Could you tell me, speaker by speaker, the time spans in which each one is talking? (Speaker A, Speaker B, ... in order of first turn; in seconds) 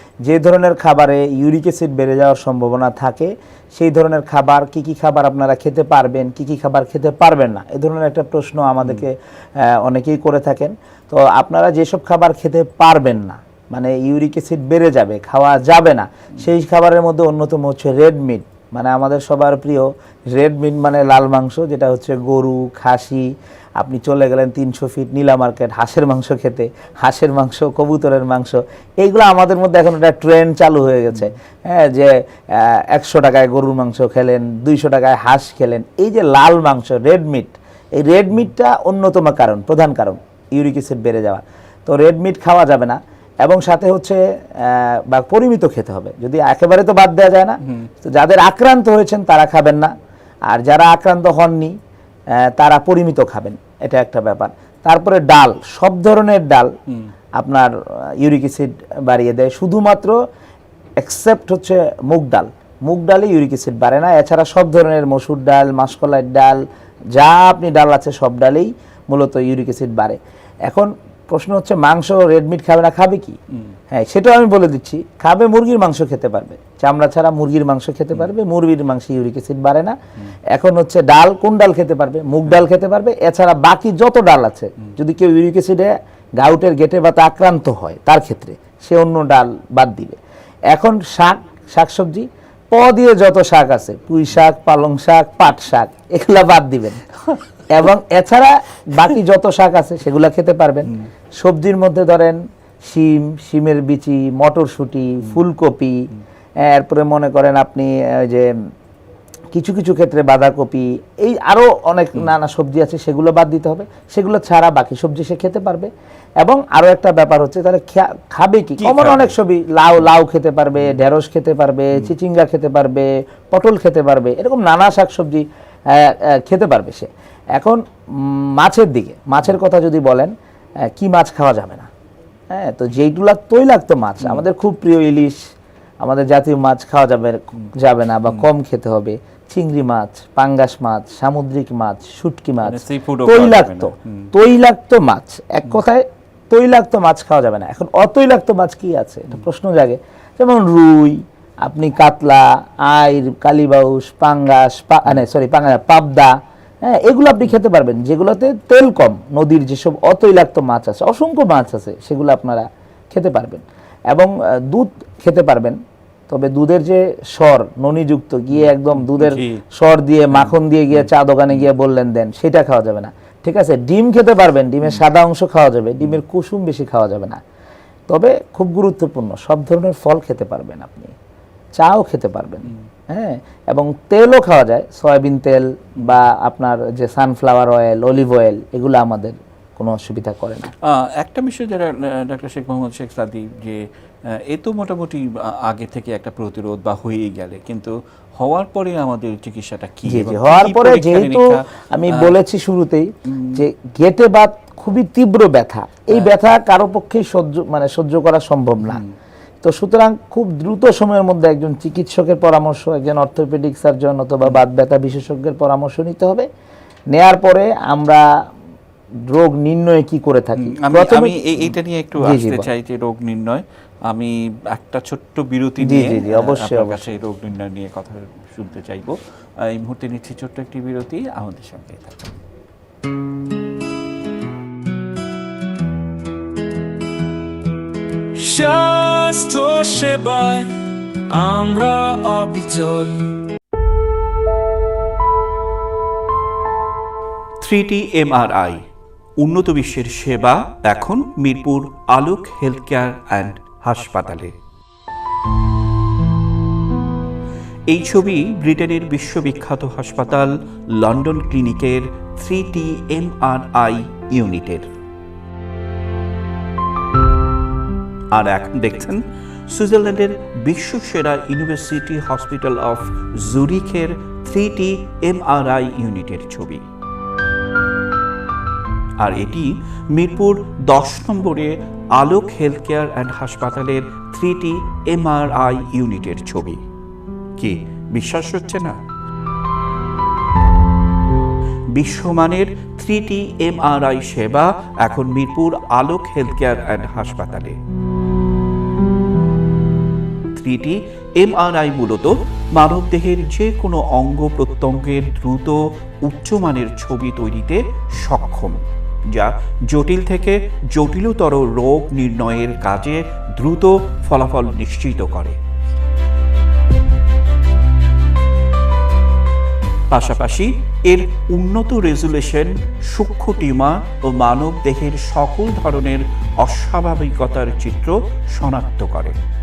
Speaker A: 0.2-49.9, 50.5-51.8, 52.3-56.7, 57.4-60.2, 61.0-73.4, 73.9-80.0, 80.5-90.2, 90.7-97.0, 97.7-106.1, 106.6-108.5, 109.5-115.9, 116.4-131.9, 132.5-135.4, 136.0-177.4, 178.1-181.1, 181.8-190.7, 200.1-209.0, 209.6-216.5, 217.1-218.3, 219.3-221.4, 222.2-222.7, 225.8-227.1
Speaker B: 118.8-119.3, 142.6-144.3, 168.5-169.6, 170.3-171.7, 190.8-202.3, 203.3-203.6, 208.8-209.1, 220.6-232.4, 247.6-248.8, 249.4-254.5, 257.9-264.9, 268.3-276.9, 279.2-286.8, 287.6-289.0, 291.9-297.8, 300.5-315.6, 320.1-329.4
Speaker C: 238.3-240.7, 241.3-243.3